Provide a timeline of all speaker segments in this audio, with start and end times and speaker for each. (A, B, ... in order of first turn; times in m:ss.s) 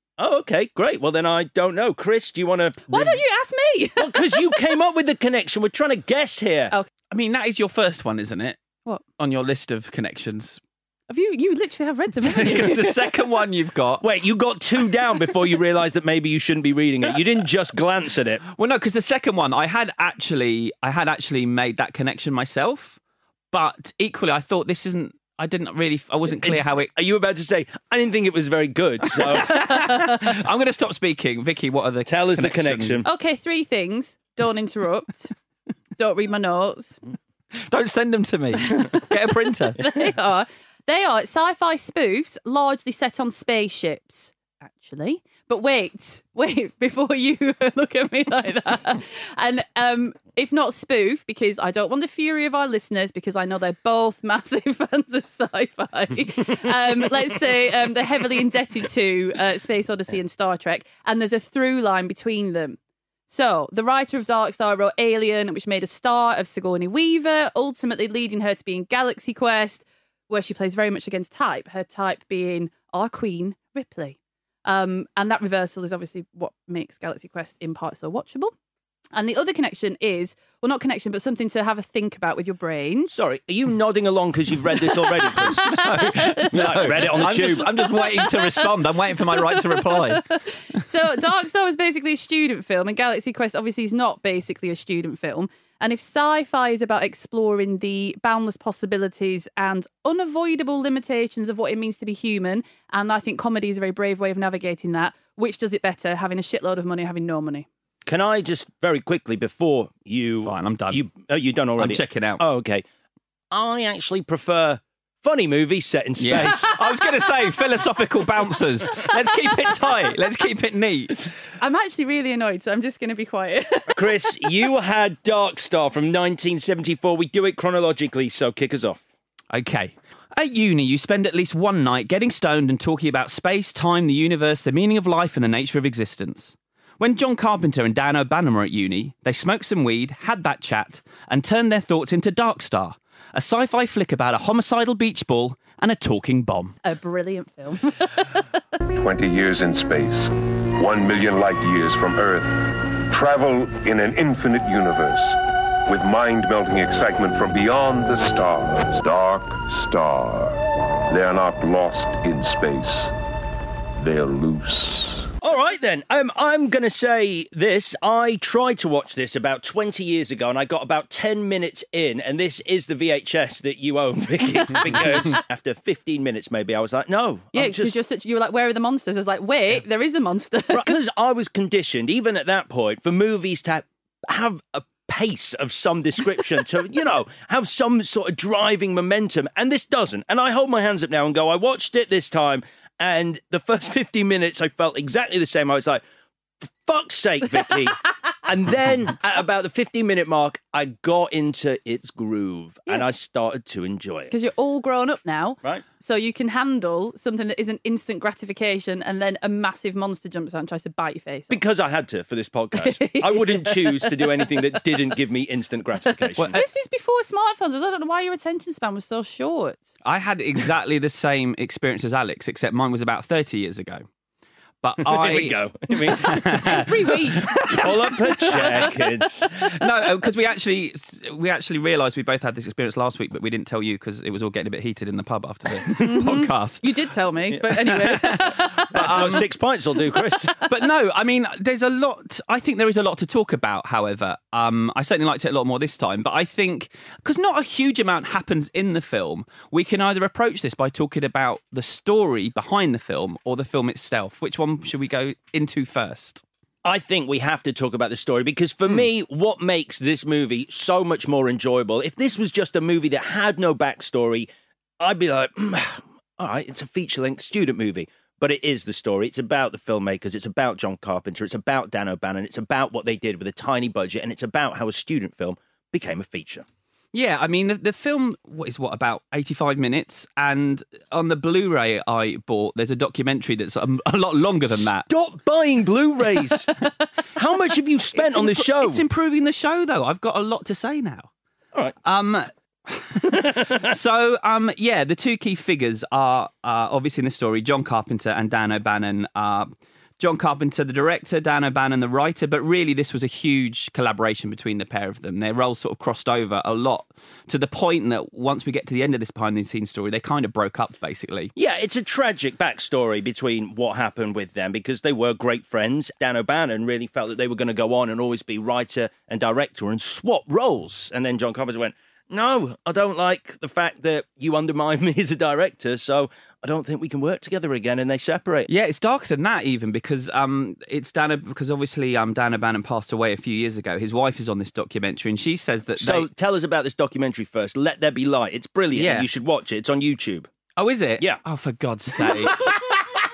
0:00.2-0:03.2 A
0:02.9-0:04.6 B
0:04.0-0:06.7 A
0:07.1-0:08.6 C
0:09.2-0:10.6 C
0:11.1-0:13.2 B
0:12.3-0:14.0 C
0:14.0-0:18.4 A
0:18.5-0:23.0 C
0:23.5-0:26.9 C
0:26.3-0:29.6 A
0:29.1-0:33.0 C
0:29.5-0:30.2 B
0:32.0-0:33.0 A
0:33.0-0:35.3 B
0:36.0-0:37.0 B
0:37.6-0:39.8 C
0:38.6-0:39.1 B
0:39.7-1:02.8 B
1:03.3-1:18.5 B
1:19.1-1:23.2 B
1:23.1-1:25.8 A
1:24.9-1:30.2 B
1:25.6-1:30.2 C
1:26.5-1:27.7 A
1:30.8-1:47.7 B
1:48.0-1:52.8 A
1:50.4-1:51.0 C
1:51.8-1:52.4 C
1:53.5-1:56.7 A
1:56.2-2:01.3 C
2:01.6-2:04.6 B
2:03.9-2:09.0 A
2:09.5-2:26.8 C
2:26.8-2:28.2 B
2:28.9-2:43.1 D
2:44.0-2:45.3 D
2:45.4-2:58.0 A
2:54.7-2:55.3 B
2:57.5-3:00.9 B
3:00.7-3:16.0 A
3:16.6-3:24.3 A
3:24.3-3:31.6 B
3:31.5-3:36.6 A
3:32.8-3:34.9 B
3:36.3-3:39.9 B
3:40.0-3:44.0 C
3:44.8-3:46.8 C
3:45.0-3:49.6 A
3:46.1-3:47.7 B
3:47.4-3:56.8 C
3:48.5-3:48.8 B
3:56.0-3:58.9 B
3:57.7-3:59.5 C
3:58.9-4:00.6 A
4:00.6-4:16.4 C
4:16.8-4:24.5 A
4:25.0-4:36.6 A
4:37.1-4:45.1 C
4:45.1-4:46.8 A
4:47.3-4:49.0 A
4:48.1-4:51.3 C
4:52.0-5:11.5 C
4:53.3-4:53.9 A
5:11.6-5:28.7 A
5:28.7-5:36.3 C
5:36.0-5:40.5 A
5:38.9-5:39.3 C
5:40.8-5:42.7 C
5:42.2-5:42.8 A